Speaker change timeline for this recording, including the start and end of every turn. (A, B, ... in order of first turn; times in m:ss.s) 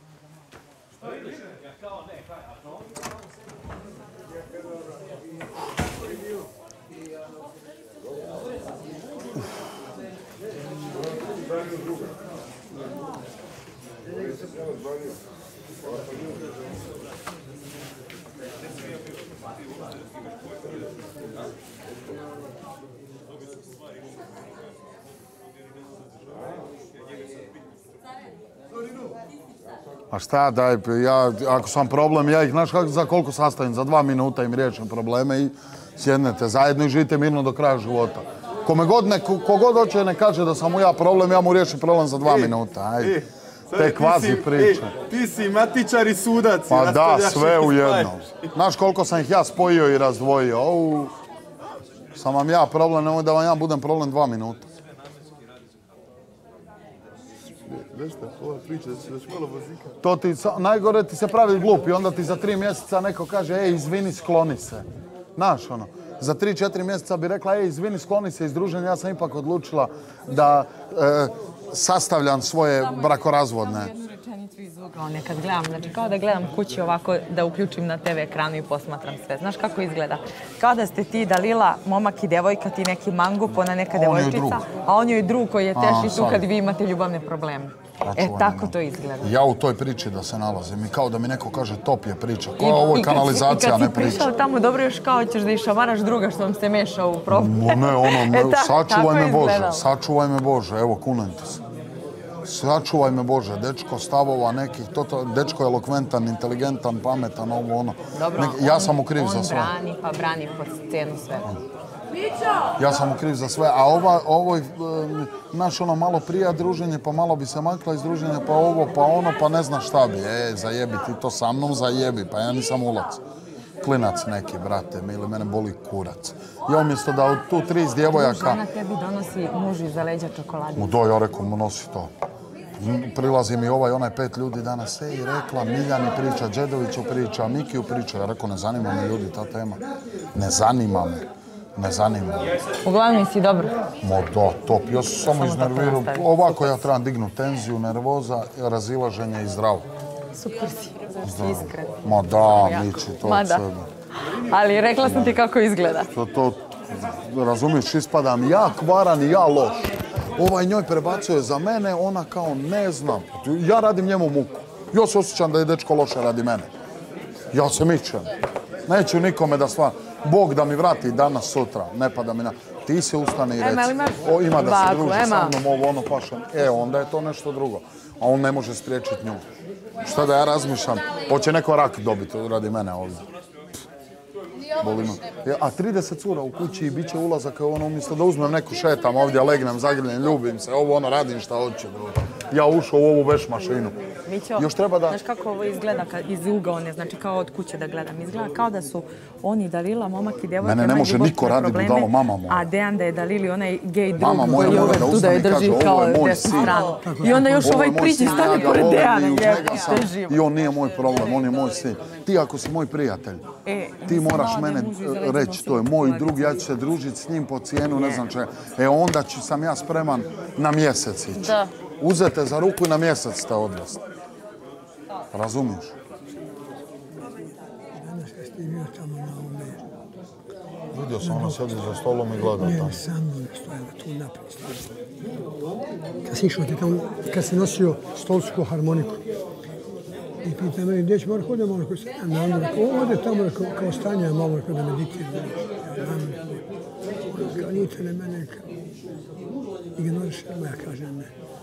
0:30.1-0:45.0 A
0:42.2-0:48.1 B
0:46.7-0:51.1 A
0:52.1-0:54.7 A
0:57.6-0:59.9 B
1:00.0-1:13.9 A
1:13.7-1:29.3 C
1:23.9-1:24.6 A
1:25.7-1:26.4 A
1:28.0-1:34.3 A
1:32.6-1:39.8 C
1:37.3-1:41.6 A
1:42.4-1:49.7 A
1:48.1-1:51.5 C
1:52.8-2:03.2 A
2:03.8-2:08.6 A
2:08.1-2:10.9 C
2:10.8-2:12.1 A
2:12.8-2:19.8 A
2:20.3-2:21.2 A
2:21.8-2:22.6 A
2:22.8-2:23.8 C
2:24.0-2:29.9 A
2:25.3-2:26.9 C
2:30.3-2:33.6 C
2:31.2-2:33.9 A
2:34.2-2:36.1 C
2:35.0-2:35.4 A
2:36.1-2:46.7 A
2:47.5-2:48.3 A
2:48.9-2:59.4 A
2:53.6-2:55.6 C
3:00.0-3:03.2 A
3:04.8-3:14.0 A
3:14.2-3:30.4 C
3:14.6-3:15.2 A
3:20.6-3:22.7 A
3:24.2-3:26.8 A
3:24.2-3:25.2 D
3:26.7-3:27.8 D
3:27.6-3:33.4 A
3:33.6-3:36.6 C
3:34.0-3:44.0 A
3:41.4-3:41.7 C
3:45.3-3:45.9 A
3:47.9-3:49.8 D
3:50.9-3:53.0 A
3:51.2-3:51.8 D
3:52.4-3:54.8 D
3:56.2-3:59.2 D
4:00.4-4:06.6 D
4:07.3-4:08.6 D
4:09.9-4:11.3 D